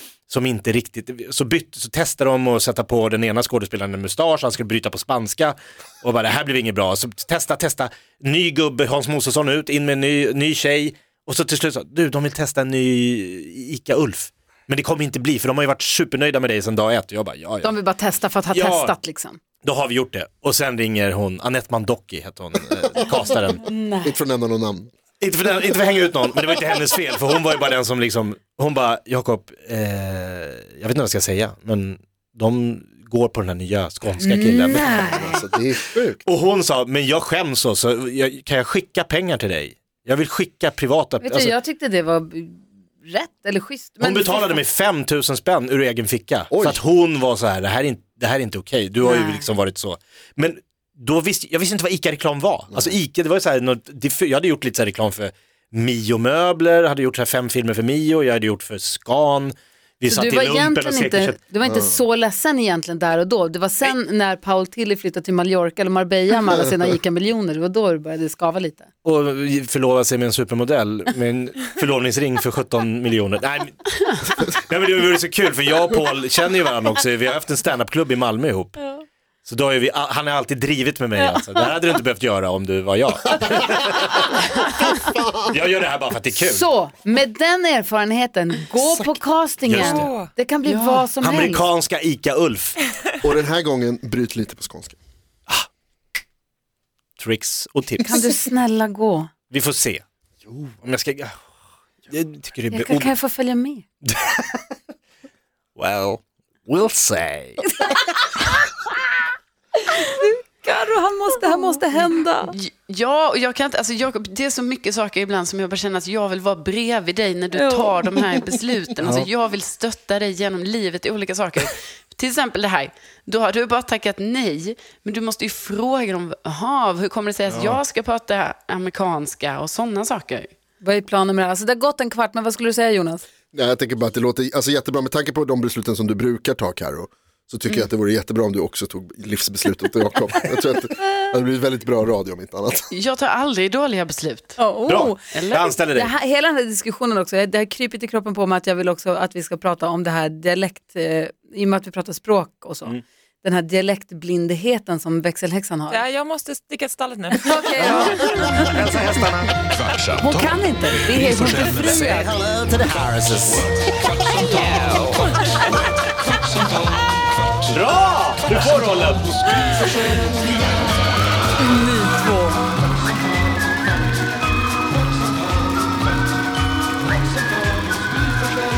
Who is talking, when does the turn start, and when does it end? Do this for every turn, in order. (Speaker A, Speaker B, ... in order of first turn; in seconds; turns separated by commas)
Speaker A: 0.3-17.7, Speaker B: 17.6-19.4, Speaker A: 18.5-18.9, Speaker A: 19.6-23.6, Speaker B: 23.6-24.1, Speaker C: 24.0-24.9, Speaker A: 25.2-35.3, Speaker B: 34.2-35.4, Speaker C: 35.0-36.2, Speaker A: 36.2-41.5, Speaker B: 41.2-44.6, Speaker A: 44.0-61.4, Speaker C: 46.5-46.8, Speaker B: 49.0-49.5, Speaker C: 52.7-53.0, Speaker B: 60.1-68.9, Speaker C: 61.6-61.9, Speaker A: 69.0-73.8, Speaker A: 74.3-78.8, Speaker A: 79.4-84.3, Speaker A: 85.5-86.6, Speaker B: 86.3-91.6, Speaker A: 89.7-90.0, Speaker D: 89.8-90.3, Speaker E: 90.7-91.1, Speaker A: 91.2-92.8, Speaker C: 93.2-95.0, Speaker A: 97.2-98.1, Speaker B: 98.0-99.3, Speaker A: 99.5-101.4, Speaker A: 102.1-103.1, Speaker B: 102.7-103.8, Speaker A: 104.0-104.8, Speaker A: 105.8-107.6, Speaker B: 107.6-108.1, Speaker B: 109.8-112.5, Speaker E: 112.0-130.5, Speaker B: 117.5-118.0, Speaker B: 130.8-133.2, Speaker C: 133.5-142.9, Speaker E: 142.9-144.6, Speaker B: 144.6-145.2, Speaker A: 144.8-146.1, Speaker E: 145.3-145.8, Speaker B: 145.9-156.0, Speaker D: 155.9-158.9, Speaker B: 157.3-158.8, Speaker A: 157.9-159.6, Speaker F: 159.7-162.1, Speaker B: 160.2-162.3, Speaker A: 161.9-165.0, Speaker F: 164.5-165.2, Speaker A: 167.7-169.6, Speaker B: 171.6-172.6